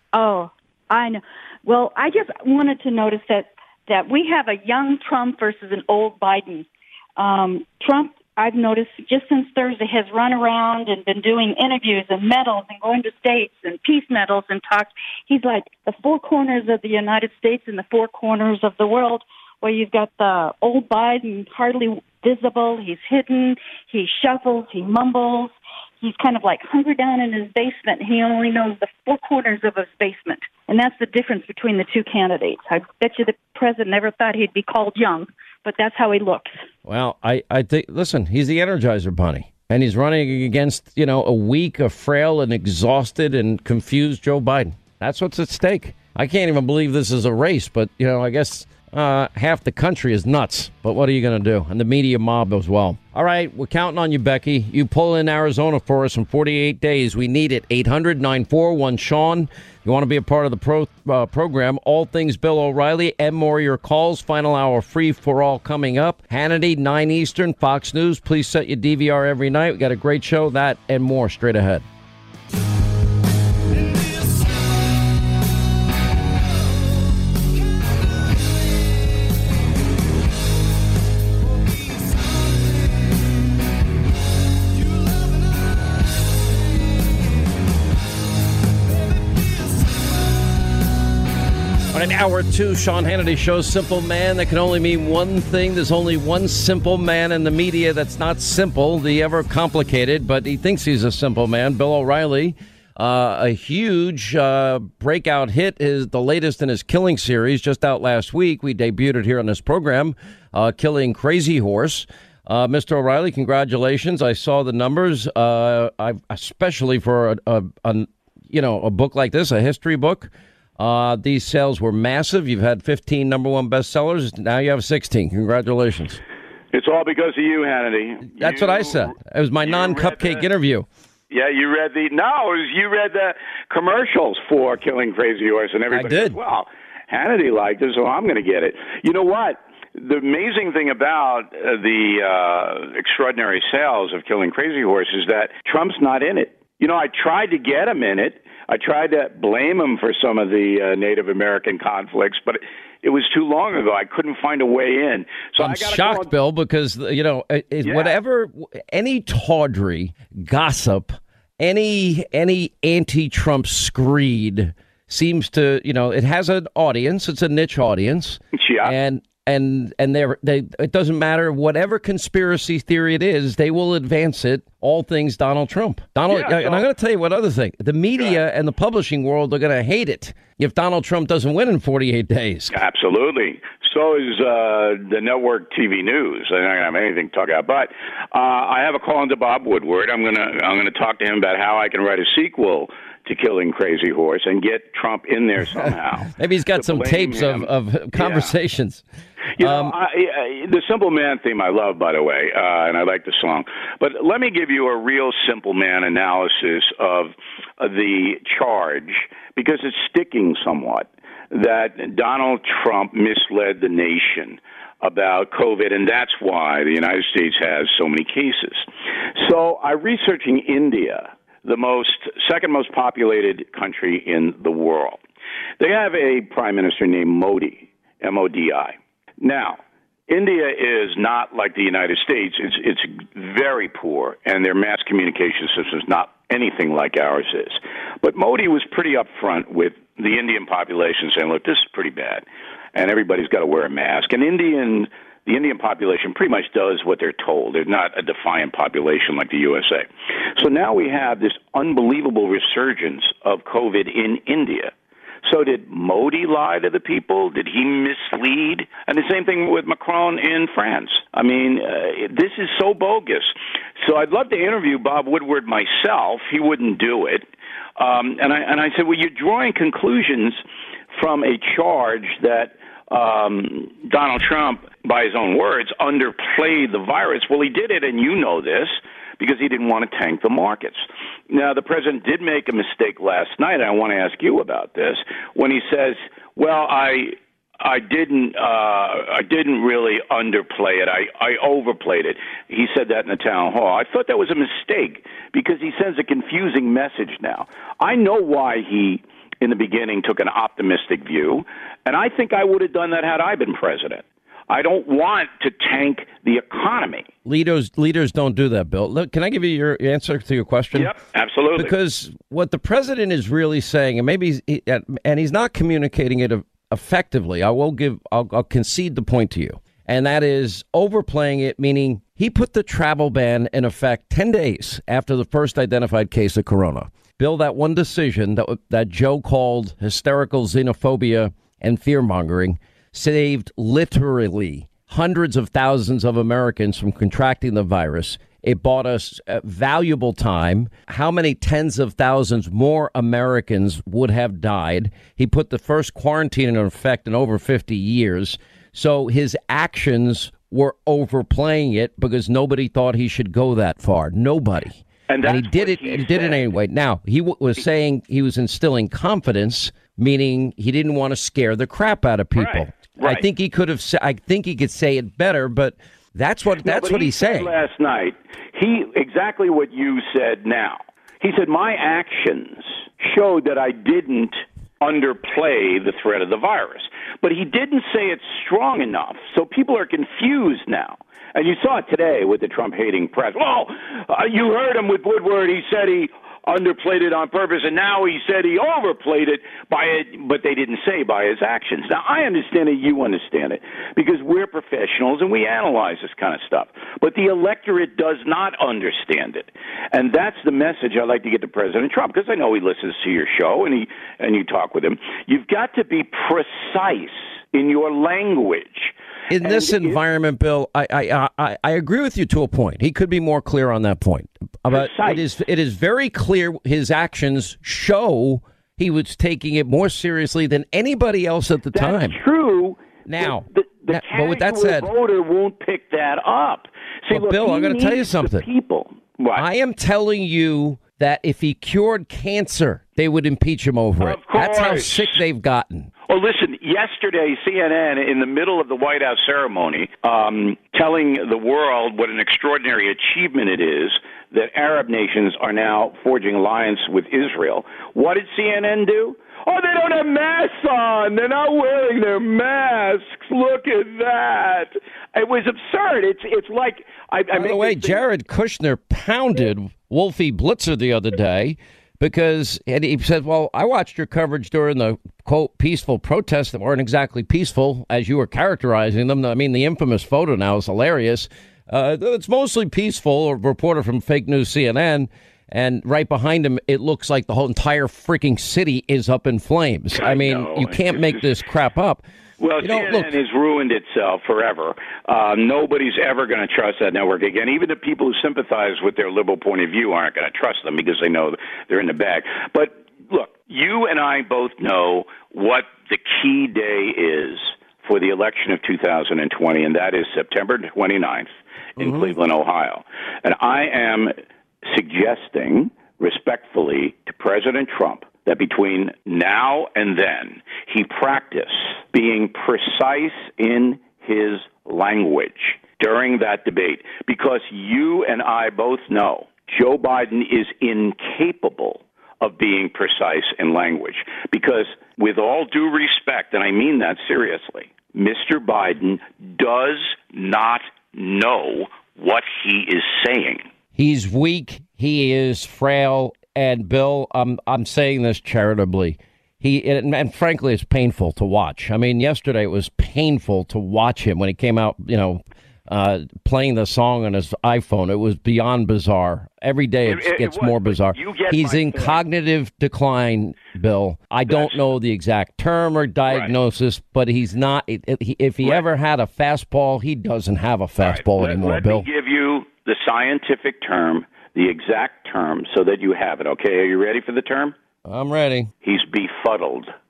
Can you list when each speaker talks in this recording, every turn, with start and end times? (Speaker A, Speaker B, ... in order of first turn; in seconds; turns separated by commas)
Speaker A: 0.1-36.6, Speaker B: 36.8-71.8, Speaker B: 91.9-126.2, Speaker C: 126.7-130.5, Speaker B: 128.3-130.9, Speaker C: 131.3-156.3, Speaker B: 135.9-136.4, Speaker B: 155.6-182.7, Speaker C: 157.8-158.2, Speaker C: 168.5-168.9, Speaker C: 176.3-176.9, Speaker C: 178.2-178.4, Speaker C: 182.7-198.6, Speaker B: 195.8-199.0, Speaker C: 199.6-225.2, Speaker B: 199.6-199.9, Speaker C: 225.8-254.9, Speaker C: 255.4-270.6, Speaker C: 271.1-307.3, Speaker B: 307.4-311.1, Speaker C: 310.9-311.9, Speaker B: 311.8-367.7, Speaker C: 355.3-356.7, Speaker C: 362.5-363.4, Speaker C: 366.7-410.2, Speaker B: 409.5-422.4, Speaker C: 414.9-415.5, Speaker C: 421.9-429.7, Speaker B: 423.2-425.1, Speaker B: 427.3-428.7, Speaker B: 429.5-436.1, Speaker C: 434.2-435.4, Speaker C: 436.3-458.2, Speaker B: 457.5-482.2, Speaker C: 480.1-481.5, Speaker C: 482.6-533.7, Speaker B: 482.8-483.4, Speaker B: 502.0-502.3, Speaker B: 533.9-562.0, Speaker C: 550.0-552.2, Speaker C: 554.5-554.9, Speaker C: 556.3-556.5, Speaker C: 561.0-567.7, Speaker B: 568.0-568.7, Speaker C: 568.8-569.9